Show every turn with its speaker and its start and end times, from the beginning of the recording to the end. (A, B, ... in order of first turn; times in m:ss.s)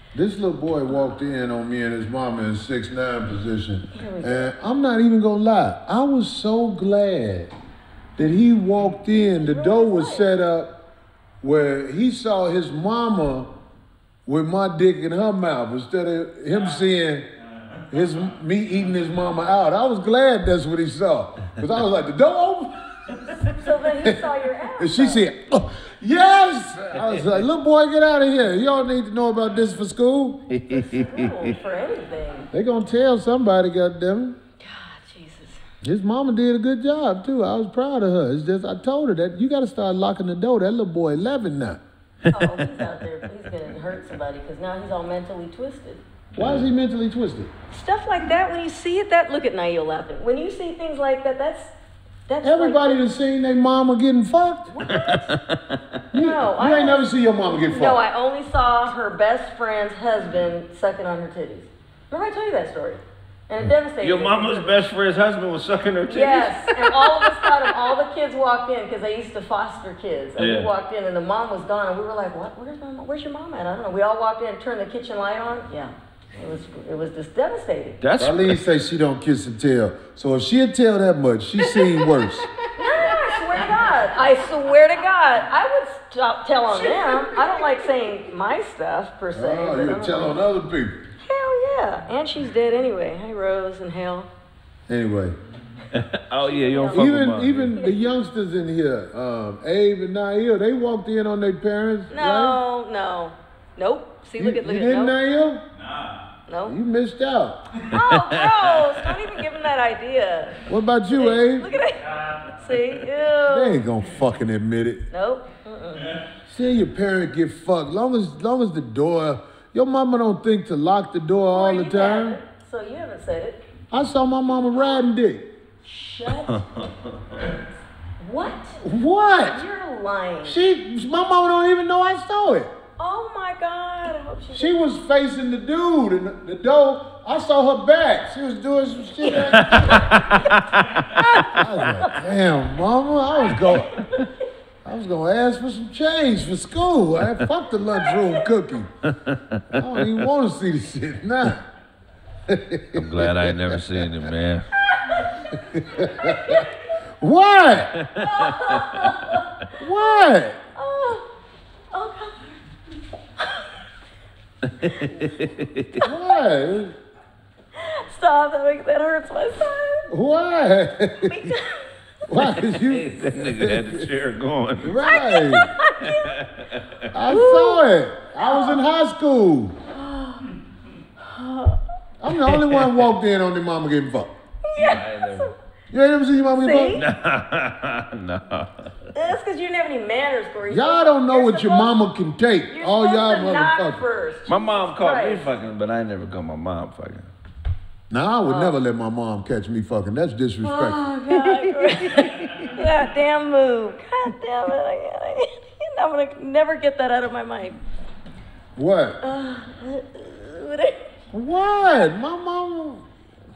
0:00.1-0:07.5 A
0:03.9-0:04.5 B
0:08.2-0:10.8 A
0:09.2-0:10.3 B
0:11.4-0:13.5 A
0:14.2-0:17.3 A
0:17.9-0:23.3 A
0:23.5-0:25.2 B
0:24.8-0:30.5 A
0:30.5-0:31.5 C
0:30.7-0:32.5 B
0:32.5-0:34.4 A
0:34.6-0:35.6 B
0:35.8-0:41.8 A
0:42.3-0:42.8 C
0:42.3-0:46.0 B
0:46.3-0:46.7 C
0:46.4-0:47.5 A
0:47.7-0:51.7 B
0:52.3-0:53.0 B
0:52.4-0:54.7 A
0:54.7-0:55.3 B
0:54.8-0:55.8 C
0:56.1-0:58.0 A
0:56.2-1:04.7 B
1:04.0-1:07.7 C
1:06.1-1:18.0 B
1:10.4-1:10.7 C
1:18.0-1:18.6 C
1:18.2-1:22.5 A
1:22.7-1:30.4 B
1:29.3-1:31.0 A
1:31.2-1:34.3 B
1:34.9-1:35.4 A
1:35.9-1:37.7 C
1:36.4-1:37.1 B
1:36.9-1:42.6 A
1:42.1-1:45.2 B
1:44.4-1:45.6 A
1:46.5-1:46.8 B
1:46.7-1:47.6 A
1:47.8-1:53.8 B
1:47.9-1:48.9 C
1:50.7-1:51.7 A
1:53.5-1:55.1 A
1:55.1-1:56.1 B
1:56.5-2:02.4 A
2:01.5-2:03.6 B
2:03.9-2:05.5 A
2:04.8-2:05.0 B
2:05.8-2:06.6 B
2:06.4-2:07.5 C
2:08.2-2:08.8 B
2:08.8-2:09.6 A
2:09.4-2:10.6 B
2:10.4-2:12.7 A
2:13.0-2:14.8 B
2:14.5-2:20.2 A
2:19.4-2:21.2 C
2:19.6-2:20.6 B
2:21.2-2:22.2 B
2:21.4-2:23.9 A
2:23.3-2:24.3 B
2:24.8-2:28.9 A
2:27.9-2:28.5 B
2:29.0-2:29.9 C
2:29.7-2:31.6 A
2:32.5-2:34.1 A
2:32.9-2:34.7 C
2:34.9-2:36.9 B
2:35.5-2:38.0 A
2:38.0-2:39.4 C
2:38.2-2:41.3 B
2:39.8-2:40.6 A
2:41.9-2:42.6 B
2:43.4-2:43.7 B
2:44.6-2:46.0 C
2:44.8-2:45.4 B
2:46.0-2:46.4 B
2:46.0-2:46.9 A
2:47.7-2:50.1 B
2:50.1-2:51.5 A
2:51.2-2:51.9 B
2:52.3-2:54.1 A
2:52.7-2:55.0 C
2:54.8-2:55.7 A
2:55.1-2:56.4 B
2:56.0-2:57.0 C
2:57.1-2:59.8 A
2:57.3-2:57.8 B
2:58.4-2:58.8 B
2:59.9-3:00.5 B
3:01.2-3:01.8 B
3:02.2-3:04.3 A
3:02.3-3:03.0 C
3:04.6-3:05.5 B
3:04.7-3:05.5 C
3:05.9-3:07.0 A
3:06.6-3:07.1 B
3:07.0-3:09.1 C
3:09.1-3:12.0 B
3:10.7-3:14.0 A
3:12.7-3:15.4 B
3:14.5-3:17.3 C
3:18.1-3:21.0 A
3:18.4-3:18.8 B
3:20.6-3:27.8 B
3:21.8-3:22.7 C
3:28.8-3:29.2 A
3:29.2-3:31.1 B
3:31.3-3:33.1 A